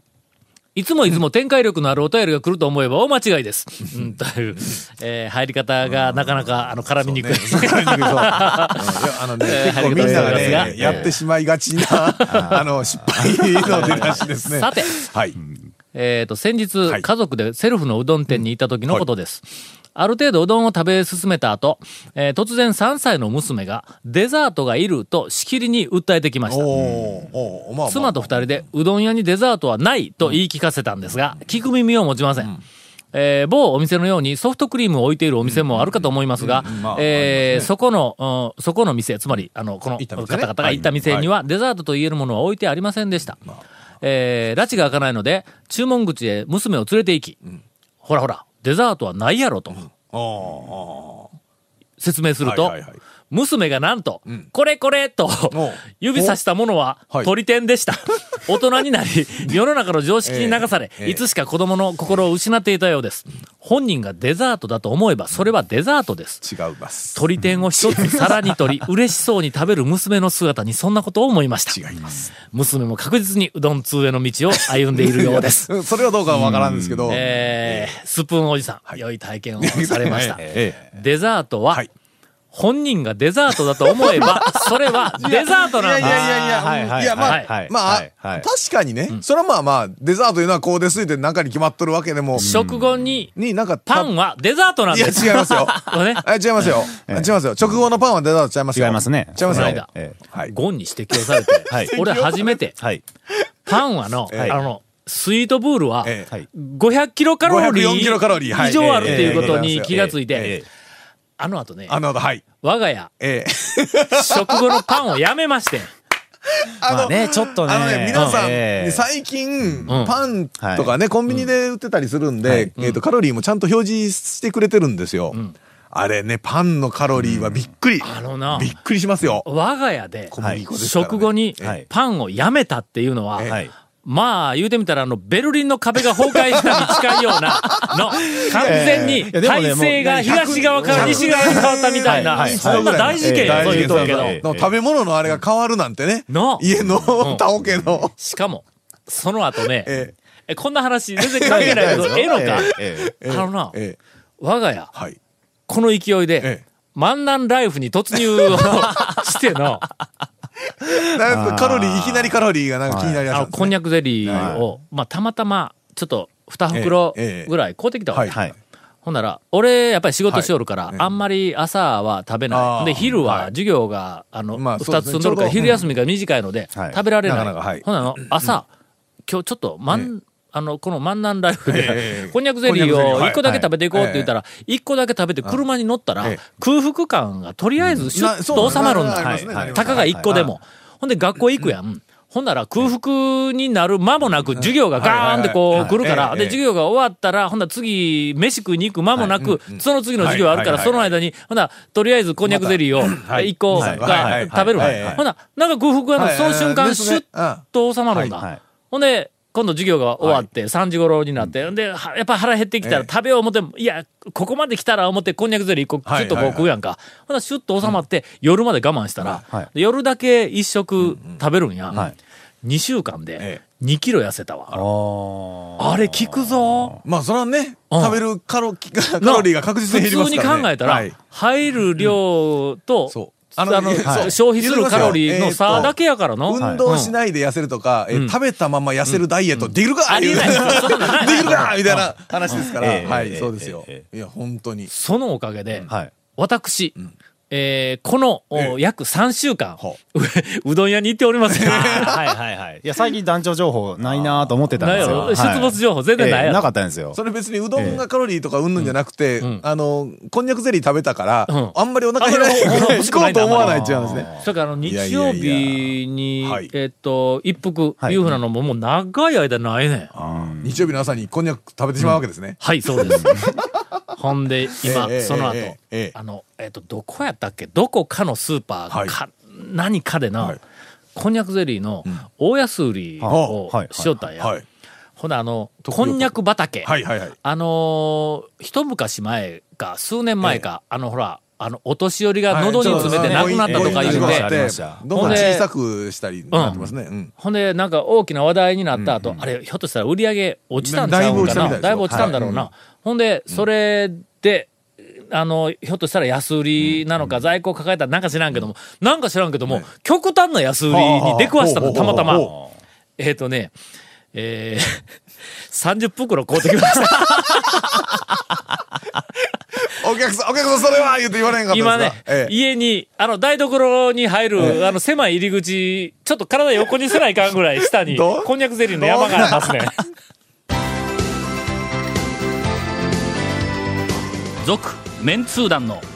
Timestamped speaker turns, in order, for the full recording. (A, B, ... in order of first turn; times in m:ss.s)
0:00.7-0:11.1 A
0:06.0-0:15.4 B
0:09.8-0:11.1 C
0:11.8-0:12.6 A
0:12.3-0:14.1 C
0:13.6-0:15.0 A
0:15.9-0:26.8 A
0:26.5-0:28.6 B
0:26.7-0:27.0 C
0:27.9-0:32.5 A
0:33.1-0:43.4 A
0:35.4-0:37.7 B
0:40.0-0:41.3 B
0:44.0-0:47.4 A
0:48.0-0:49.9 A
0:49.7-0:51.3 B
0:52.0-0:52.8 A
0:52.4-0:53.0 B
0:53.3-1:06.4 A
0:55.5-0:56.4 B
1:00.2-1:01.2 B
1:06.4-1:07.2 B
1:07.1-1:11.8 A
1:07.8-1:08.5 B
1:11.7-1:12.3 B
1:12.5-1:15.7 A
1:14.9-1:17.9 B
1:16.3-1:17.2 C
1:17.1-1:21.8 A
1:19.6-1:20.8 B
1:22.5-1:26.6 A
1:23.8-1:32.5 B
1:26.0-1:28.5 C
1:27.2-1:27.5 A
1:32.4-1:33.3 C
1:32.4-1:33.3 A
1:33.4-1:34.1 B
1:33.9-1:36.2 A
1:34.9-1:40.5 B
1:37.0-1:37.3 C
1:38.7-1:40.2 C
1:39.4-1:39.9 A
1:40.5-1:42.7 A
1:41.1-1:42.6 B
1:41.7-1:42.0 C
1:42.8-1:43.0 C
1:43.7-1:50.6 A
1:44.3-1:44.6 B
1:46.0-1:46.3 B
1:47.4-1:50.6 B
1:48.6-1:50.6 C
1:51.4-1:52.0 A
1:51.9-1:52.5 B
1:52.6-1:53.1 A
1:53.2-1:54.8 B
1:54.1-1:55.9 A
1:56.6-2:05.4 B
1:56.8-1:59.0 C
1:58.1-1:58.4 A
1:59.9-2:00.1 A
2:00.6-2:00.9 C
2:02.4-2:02.7 C
2:05.9-2:09.4 B
2:07.2-2:07.7 C
2:08.0-2:08.7 A
2:09.4-2:13.5 A
2:10.3-2:11.8 B
2:10.4-2:10.6 C
2:13.4-2:13.7 C
2:14.0-2:24.4 A
2:17.6-2:19.1 B
2:18.4-2:24.7 C
2:20.0-2:28.1 B
2:26.3-2:26.7 A
2:27.2-2:27.4 A
2:27.7-2:28.0 C
2:28.2-2:29.9 A
2:29.8-2:30.1 B
2:30.5-2:33.8 A
2:31.2-2:34.0 B
2:31.4-2:33.1 C
2:34.4-2:34.9 A
2:35.7-2:39.8 A
2:38.4-2:38.8 B
2:40.8-2:43.2 C
2:40.9-2:44.5 B
2:43.3-2:48.5 A
2:44.2-2:44.6 C
2:46.7-2:47.5 B
2:48.1-2:48.4 B
2:48.3-2:48.5 C
2:49.0-2:58.7 A
2:50.3-2:51.0 B
2:52.5-2:53.5 B
2:54.5-2:55.8 B
2:56.7-2:57.0 C
2:57.2-2:58.6 B
2:59.3-3:42.0 A
3:01.7-3:04.3 B
3:07.8-3:10.5 C
3:08.1-3:10.5 B
3:14.6-3:16.6 B
3:19.4-3:21.1 B
3:22.4-3:25.2 B
3:23.7-3:25.2 C
3:26.2-3:28.3 B
3:28.3-3:28.6 C
3:30.2-3:30.5 B
3:32.8-3:33.1 B
3:36.0-3:36.7 B
3:41.0-3:42.1 B
3:42.6-3:44.8 A
3:44.7-3:47.0 C
3:45.8-3:47.0 A
3:47.0-3:51.2 B
3:47.9-3:48.2 A
3:49.2-3:57.1 A
3:53.1-4:04.9 B
3:54.0-3:54.3 C
3:54.9-3:55.2 C
3:56.6-3:56.8 C
3:59.1-4:02.6 A
4:02.7-4:04.0 C
4:04.9-4:07.0 A
4:07.5-4:12.4 A
4:11.5-4:12.3 B
4:11.9-4:17.2 C
4:14.0-4:15.4 B
4:14.8-4:16.7 A
4:17.1-4:24.3 B
4:17.8-4:18.0 C
4:18.8-4:19.6 A
4:21.5-4:30.1 A
4:23.6-4:24.5 C
4:24.8-4:25.9 B
4:26.4-4:26.7 B
4:30.1-4:33.7 B
4:30.2-4:30.9 C
4:32.0-4:33.5 A
4:33.1-4:33.5 C
4:34.1-4:40.6 A
4:34.8-4:36.1 B
4:41.1-4:44.5 A
4:43.2-4:44.1 C
4:43.3-4:43.6 B
4:44.4-4:44.6 B
4:45.2-4:46.9 A
4:45.9-4:46.3 B
4:46.8-4:47.4 B
4:47.4-4:54.6 A
4:52.5-4:57.3 B
4:52.8-4:55.5 C
4:55.1-4:55.7 A
4:56.5-4:56.8 A
4:56.6-4:56.9 C
4:57.4-5:12.5 A
4:58.9-4:59.2 B
5:00.8-5:02.7 B
5:01.3-5:02.3 C
5:10.9-5:12.6 B
5:12.3-5:12.6 C
5:13.2-5:13.7 A
5:14.3-5:15.1 A
5:15.6-5:18.1 A
5:19.8-5:22.5 B
5:21.7-5:30.0 A
5:28.0-5:29.8 B
5:34.6-5:36.0 A